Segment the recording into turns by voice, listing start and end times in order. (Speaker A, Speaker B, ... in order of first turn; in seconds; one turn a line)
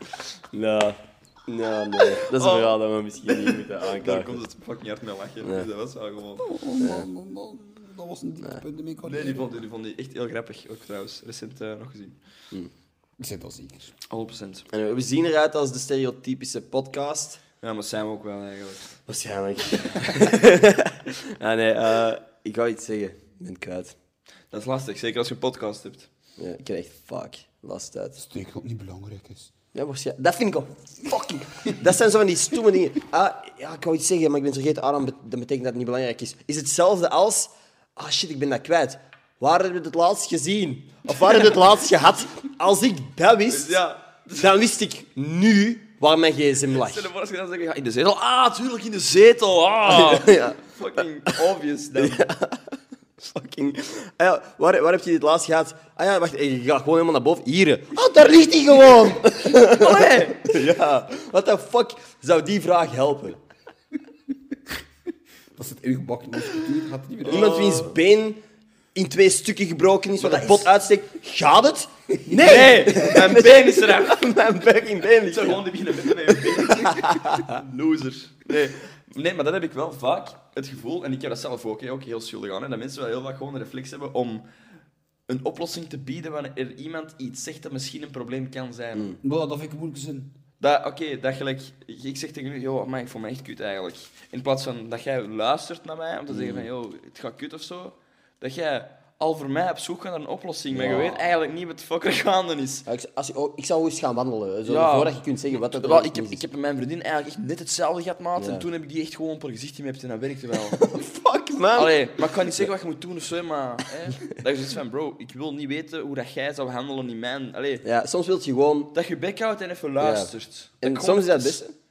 Speaker A: 0.5-4.4
Speaker B: 2.3-6.5
Speaker A: 5.4-5.7
Speaker C: 6.4-9.5
Speaker A: 6.8-7.1
Speaker B: 9.0-12.2
Speaker C: 13.2-13.9
Speaker B: 14.1-14.7
Speaker A: 14.7-17.4
Speaker B: 17.6-19.0
Speaker A: 19.1-23.9
Speaker B: 24.5-26.1
Speaker A: 26.4-28.2
Speaker C: 28.2-29.5
Speaker A: 29.7-47.1
Speaker B: 43.5-44.5
Speaker B: 46.7-52.3
Speaker A: 49.9-50.6
Speaker A: 52.0-63.4
Speaker B: 59.5-60.6
Speaker C: 65.6-67.5
Speaker B: 67.2-68.0
Speaker A: 67.3-68.4
Speaker A: 68.9-77.6
Speaker B: 70.2-70.7
Speaker B: 72.3-74.4
Speaker B: 75.2-84.5
Speaker B: 85.3-89.2
Speaker C: 89.2-90.3
Speaker B: 90.6-102.9
Speaker A: 96.3-96.7
Speaker A: 100.7-101.3
Speaker A: 102.9-106.4
Speaker B: 104.7-110.8
Speaker A: 108.4-108.7
Speaker A: 110.7-112.7
Speaker B: 111.7-117.8
Speaker A: 117.8-118.9
Speaker B: 118.9-121.6
Speaker A: 120.0-121.8